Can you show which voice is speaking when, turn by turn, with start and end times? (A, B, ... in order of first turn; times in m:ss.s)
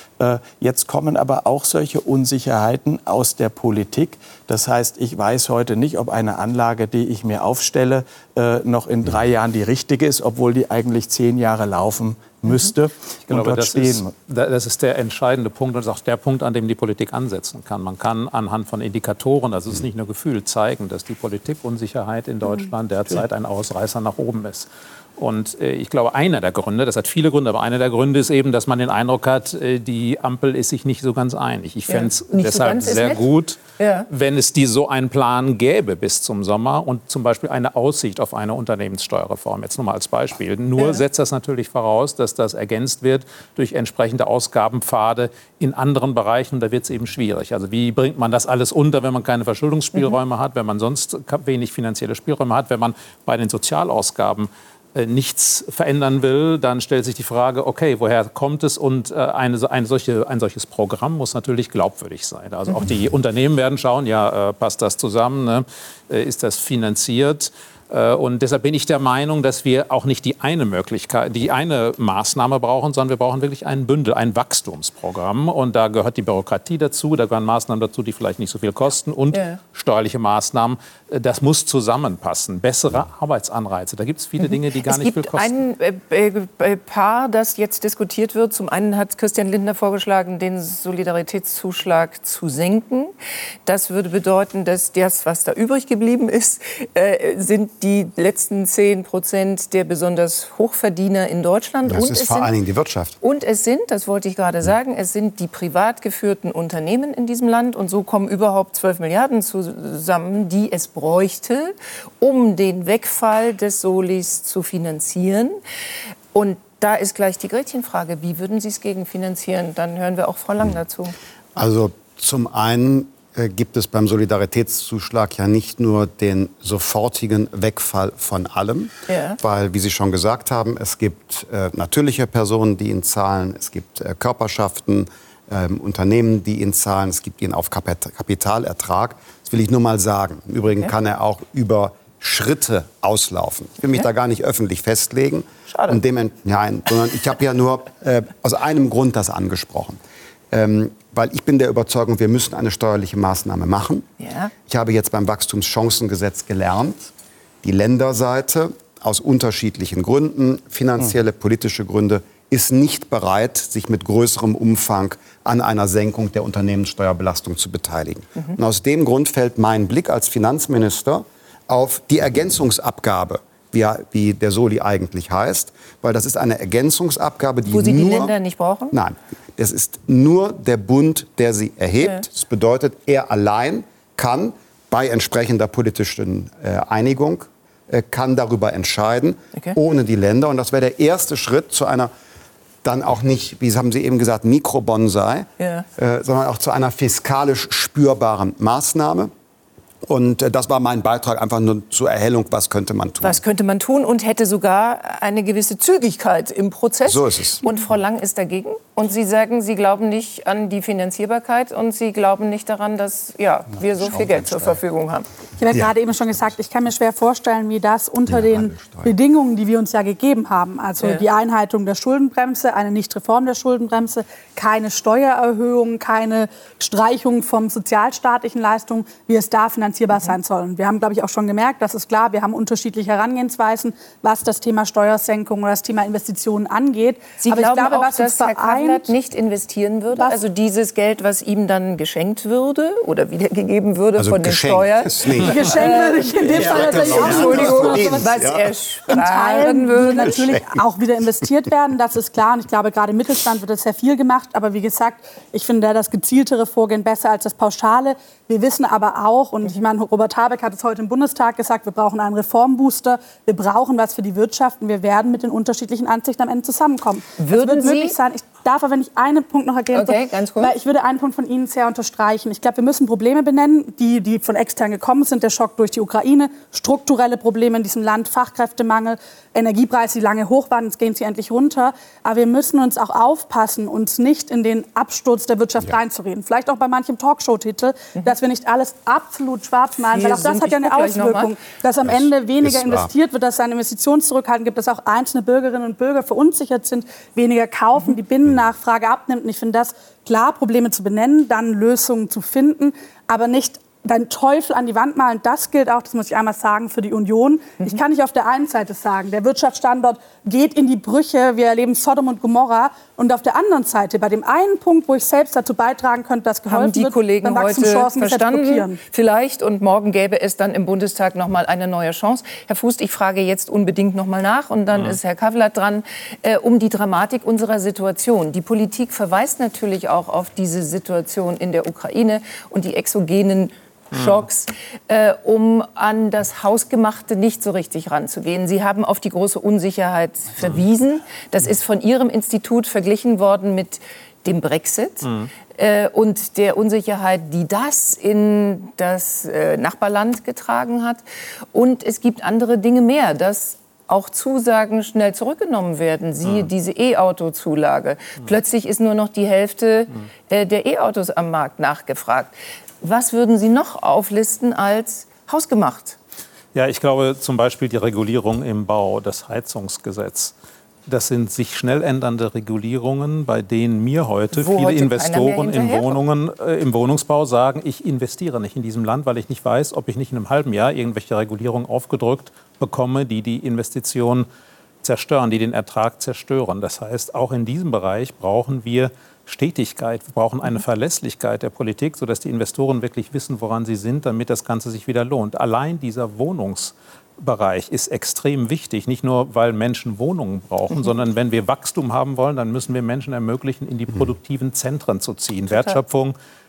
0:00.2-0:14.1 A
0:13.3-1:25.6 B
0:31.9-0:34.1 C
0:40.8-0:41.0 C
1:19.3-1:19.6 C
1:24.4-1:33.1 C
1:33.7-1:42.5 C
1:41.9-1:43.2 D
1:43.2-1:55.6 C
1:56.3-2:01.1 C
2:01.6-2:30.0 D
2:09.1-2:09.4 C
2:25.7-2:26.0 C
2:30.5-2:34.1 D
2:34.2-2:34.5 C
2:34.7-2:37.1 D
2:37.6-2:58.4 D
2:57.7-2:59.0 C
2:58.9-3:12.1 D
3:12.8-3:19.3 D
3:15.6-3:15.9 C
3:20.1-3:23.4 D
3:23.2-3:35.3 C
3:27.0-3:27.6 D
3:34.0-3:34.8 D
3:35.6-3:59.1 E
3:38.3-3:39.2 D
3:41.0-3:41.2 C
3:57.4-4:10.5 C
4:04.2-4:05.9 D
4:05.4-4:08.3 E
4:06.5-4:08.7 D
4:09.1-5:19.0 E
4:10.3-4:10.6 D
4:27.4-4:28.2 C
4:29.9-4:30.7 C
4:50.1-4:51.5 C
4:52.0-4:53.1 D
5:16.7-5:51.2 C
5:24.9-5:25.2 B
5:34.1-5:34.4 B
5:45.2-5:45.5 B
5:51.7-6:06.2 C
6:06.7-6:10.5 B
6:11.1-6:24.5 B
6:14.5-6:16.2 C
6:25.0-6:46.4 B
6:45.7-6:46.0 C